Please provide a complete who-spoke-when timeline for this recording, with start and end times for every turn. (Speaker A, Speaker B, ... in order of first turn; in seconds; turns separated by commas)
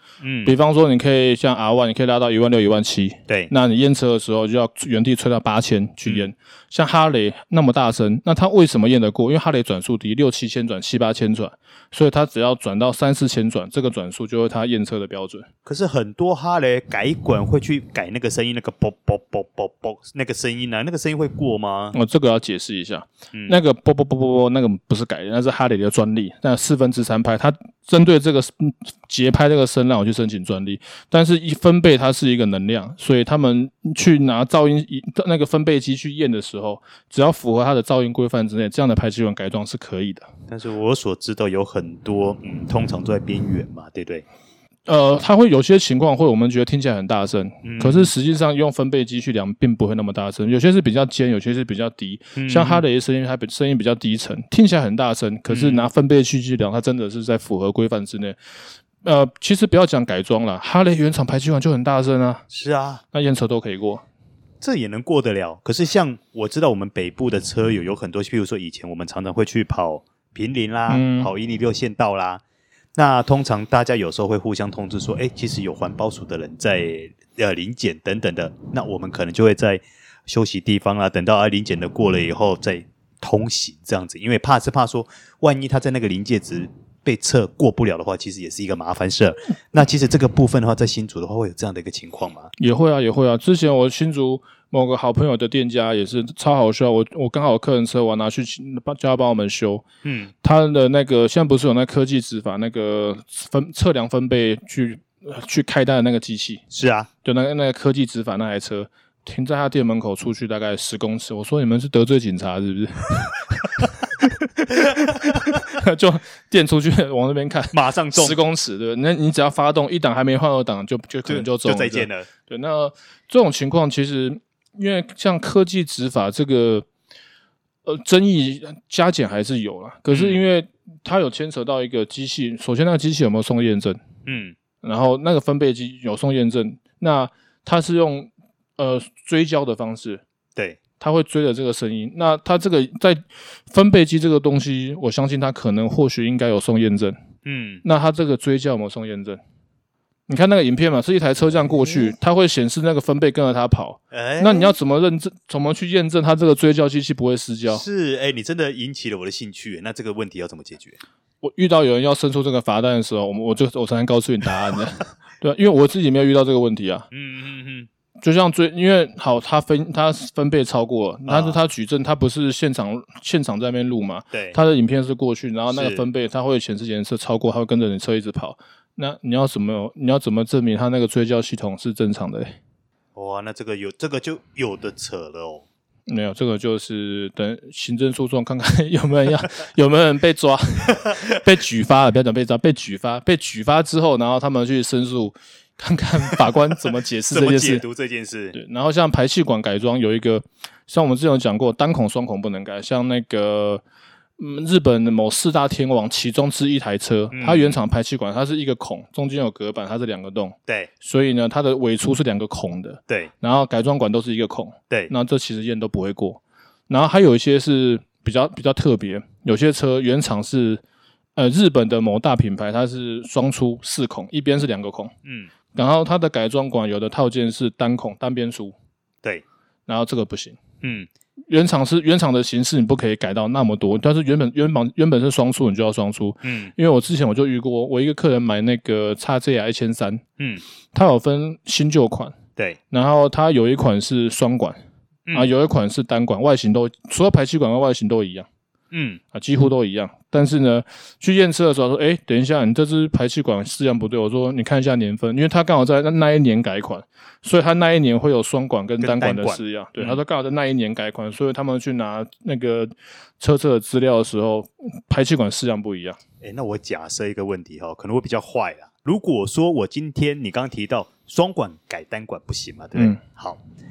Speaker A: 0.2-0.6, Speaker B: 0.4-15.5, Speaker A: 15.6-21.9, Speaker B: 21.9-40.3, Speaker A: 23.3-23.6, Speaker A: 40.5-44.2, Speaker B: 44.9-58.4, Speaker A: 47.6-48.1, Speaker A: 52.4-52.8, Speaker A: 55.5-55.9, Speaker B: 59.0-62.5, Speaker A: 62.5-63.0, Speaker B: 63.1-64.0, Speaker A: 64.6-72.4, Speaker B: 70.9-71.3, Speaker A: 73.0-92.5, Speaker B: 92.5-99.8, Speaker A: 100.0-100.3, Speaker B: 100.4-106.6, Speaker A: 106.7-107.1, Speaker B: 107.2-126.8, Speaker A: 114.9-115.6, Speaker A: 117.7-118.4, Speaker A: 121.2-122.3, Speaker B: 127.8-134.0, Speaker A: 130.1-130.5, Speaker A: 134.2-134.6, Speaker B: 134.8-140.2, Speaker A: 140.5-140.8, Speaker B: 141.0-147.1, Speaker A: 147.4-147.8, Speaker B: 147.8-149.4, Speaker B: 150.3-157.8, Speaker A: 154.1-154.8, Speaker A: 157.7-161.0, Speaker B: 161.4-167.1, Speaker A: 167.1-167.9, Speaker B: 168.2-182.5, Speaker A: 171.3-171.6, Speaker A: 174.3-174.6, Speaker A: 175.7-176.1, Speaker A: 183.1-185.7, Speaker B: 186.1-197.8, Speaker A: 197.3-198.6, Speaker B: 198.5-203.8, Speaker B: 204.4-220.8, Speaker A: 207.3-207.8, Speaker B: 221.3-225.1, Speaker A: 225.2-225.5, Speaker B: 225.7-228.7, Speaker B: 229.9-230.6, Speaker A: 230.8-231.1, Speaker B: 231.5-240.2, Speaker A: 236.4-236.7, Speaker A: 240.4-240.6, Speaker B: 240.9-242.3, Speaker B: 242.9-244.8, Speaker A: 245.3-245.5, Speaker B: 245.3-248.5, Speaker A: 248.9-249.2, Speaker B: 249.3-266.2, Speaker A: 259.0-260.2, Speaker A: 266.4-273.6